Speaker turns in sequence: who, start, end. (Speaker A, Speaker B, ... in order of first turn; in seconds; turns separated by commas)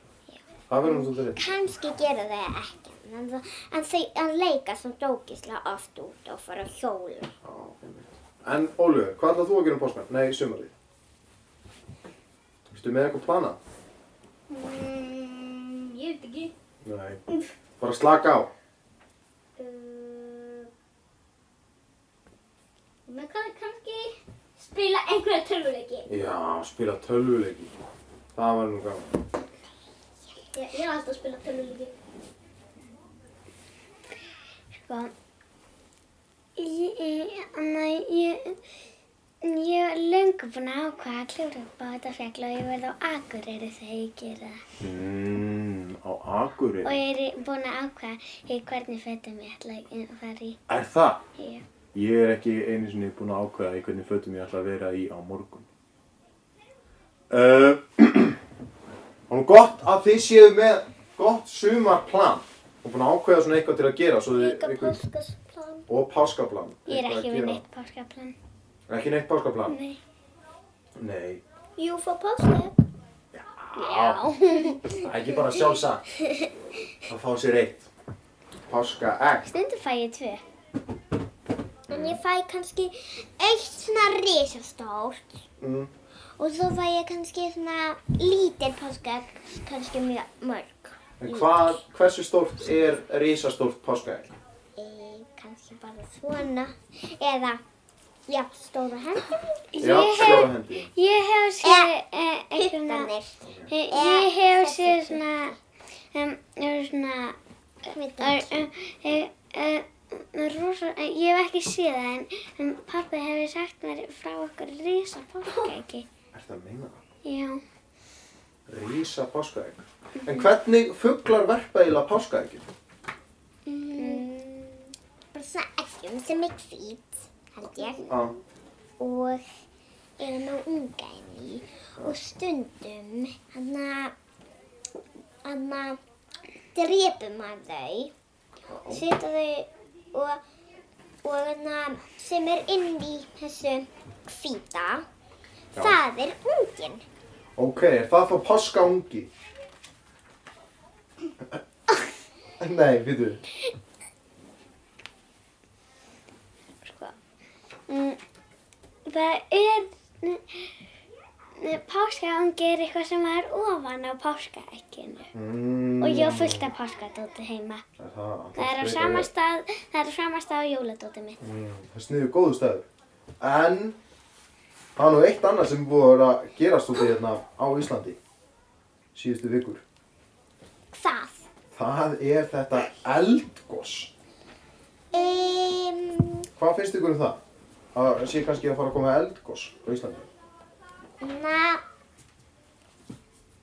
Speaker A: 0.3-7.3, Speaker B: 0.7-1.5, Speaker B: 7.4-10.7, Speaker B: 12.7-13.6, Speaker C: 14.5-16.5, Speaker B: 16.8-17.2, Speaker B: 17.8-18.5, Speaker C: 19.6-20.7, Speaker C: 23.1-26.1, Speaker B: 26.1-27.7, Speaker B: 28.4-29.1, Speaker C: 30.5-31.9, Speaker D: 34.7-35.1, Speaker D: 36.6-38.6, Speaker D: 39.4-44.6, Speaker B: 44.8-47.0, Speaker D: 46.8-50.6, Speaker B: 50.7-51.2, Speaker D: 51.4-51.6, Speaker B: 51.9-55.6, Speaker B: 57.3-58.4, Speaker B: 59.3-65.0, Speaker C: 64.5-64.9, Speaker A: 64.7-65.8, Speaker B: 65.9-67.6, Speaker D: 66.8-68.3, Speaker B: 68.9-69.8, Speaker D: 69.7-70.0, Speaker B: 71.0-71.4, Speaker A: 71.8-72.6, Speaker B: 73.3-74.2, Speaker D: 73.8-74.8, Speaker B: 74.8-76.1, Speaker B: 77.1-77.9, Speaker B: 78.7-79.5, Speaker D: 79.5-80.4, Speaker A: 81.9-85.4, Speaker B: 81.9-82.2, Speaker B: 85.6-85.9, Speaker A: 86.4-91.8, Speaker B: 91.2-94.3, Speaker A: 94.8-97.6, Speaker A: 98.3-99.6, Speaker D: 99.7-103.1, Speaker B: 99.8-100.9, Speaker A: 101.6-101.9, Speaker A: 102.6-105.2, Speaker B: 103.5-103.7, Speaker D: 103.7-105.5, Speaker D: 106.1-107.4, Speaker A: 107.8-108.5, Speaker D: 108.2-116.1, Speaker B: 116.3-117.0, Speaker D: 117.2-117.6, Speaker B: 118.7-122.7, Speaker A: 123.7-128.2, Speaker D: 124.0-124.2, Speaker B: 128.1-128.3, Speaker A: 129.0-129.5, Speaker A: 130.2-134.1, Speaker A: 135.4-136.0, Speaker A: 136.7-138.1, Speaker B: 138.7-139.1, Speaker A: 138.9-140.4, Speaker A: 141.2-145.1, Speaker A: 145.8-147.0, Speaker B: 147.6-149.3, Speaker B: 152.6-153.4, Speaker D: 156.8-157.1, Speaker D: 157.9-158.2, Speaker D: 159.1-160.7, Speaker D: 161.6-165.3, Speaker B: 165.3-166.7, Speaker D: 166.0-167.8, Speaker B: 168.0-169.3, Speaker D: 168.6-171.4, Speaker B: 171.4-172.8, Speaker B: 173.4-174.0, Speaker B: 174.9-178.2, Speaker B: 179.1-179.8, Speaker A: 180.9-181.5, Speaker B: 181.7-184.1, Speaker A: 185.1-186.4, Speaker B: 186.6-187.4, Speaker B: 187.9-190.3, Speaker A: 191.2-191.8